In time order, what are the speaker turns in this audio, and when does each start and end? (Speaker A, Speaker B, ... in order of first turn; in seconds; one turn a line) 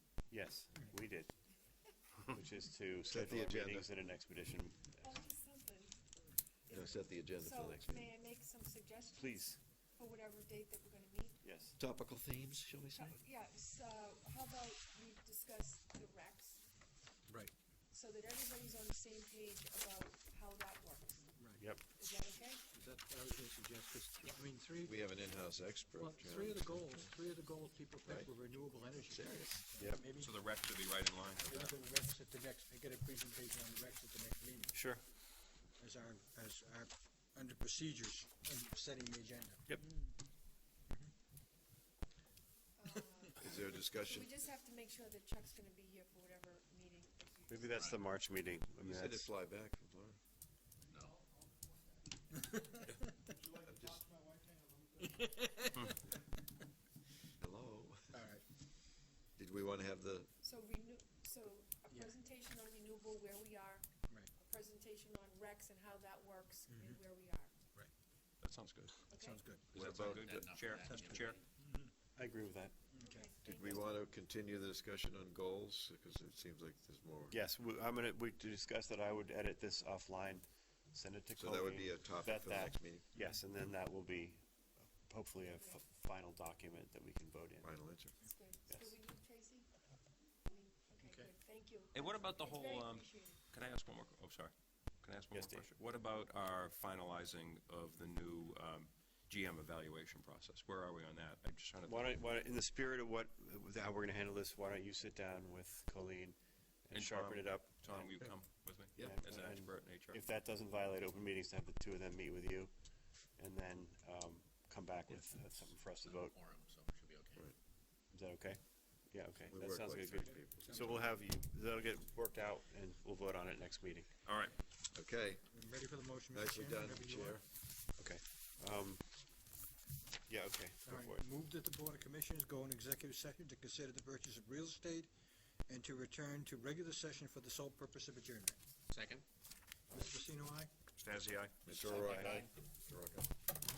Speaker A: 0.3-1.3
Speaker A: 2.3-5.2
Speaker B: 3.1-3.9
Speaker C: 5.0-6.0
Speaker C: 6.6-11.5
Speaker B: 6.7-8.1
Speaker A: 9.2-9.6
Speaker A: 11.4-11.8
Speaker B: 11.8-13.2
Speaker C: 12.9-16.6
Speaker C: 17.9-22.6
Speaker D: 22.7-25.0
Speaker B: 24.8-27.1
Speaker D: 26.0-30.3
Speaker B: 29.1-29.8
Speaker E: 30.1-31.7
Speaker D: 31.4-34.8
Speaker A: 34.7-35.0
Speaker D: 35.8-40.1
Speaker C: 42.8-48.2
Speaker B: 43.4-44.3
Speaker A: 47.5-49.3
Speaker F: 47.7-48.0
Speaker B: 48.8-50.2
Speaker F: 50.9-51.2
Speaker D: 52.3-52.8
Speaker D: 53.4-55.7
Speaker B: 53.6-54.0
Speaker B: 57.4-58.2
Speaker D: 58.1-58.4
Speaker B: 59.4-60.3
Speaker C: 60.4-67.5
Speaker D: 66.7-67.0
Speaker E: 68.4-69.1
Speaker C: 69.1-69.4
Speaker D: 69.1-69.8
Speaker B: 69.7-70.6
Speaker E: 69.7-71.4
Speaker F: 70.1-71.4
Speaker D: 70.8-71.9
Speaker A: 72.2-72.8
Speaker D: 72.9-73.3
Speaker C: 73.0-74.0
Speaker B: 73.4-77.3
Speaker A: 77.3-87.7
Speaker B: 81.3-83.1
Speaker B: 87.6-88.2
Speaker C: 88.2-89.7
Speaker A: 88.7-88.9
Speaker C: 90.5-93.4
Speaker D: 91.0-91.3
Speaker E: 91.9-102.2
Speaker A: 95.3-95.7
Speaker A: 101.8-108.1
Speaker E: 106.9-110.2
Speaker A: 109.0-112.8
Speaker A: 113.3-116.3
Speaker F: 115.9-117.5
Speaker A: 118.1-124.1
Speaker B: 119.5-121.1
Speaker E: 124.2-124.5
Speaker B: 124.9-125.5
Speaker D: 125.5-127.4
Speaker B: 126.3-127.4
Speaker A: 128.0-129.2
Speaker A: 130.3-131.2
Speaker D: 130.8-135.1
Speaker D: 135.7-138.6
Speaker F: 138.9-139.2
Speaker D: 139.9-140.7
Speaker E: 140.9-142.4
Speaker B: 141.6-143.3
Speaker F: 141.9-142.4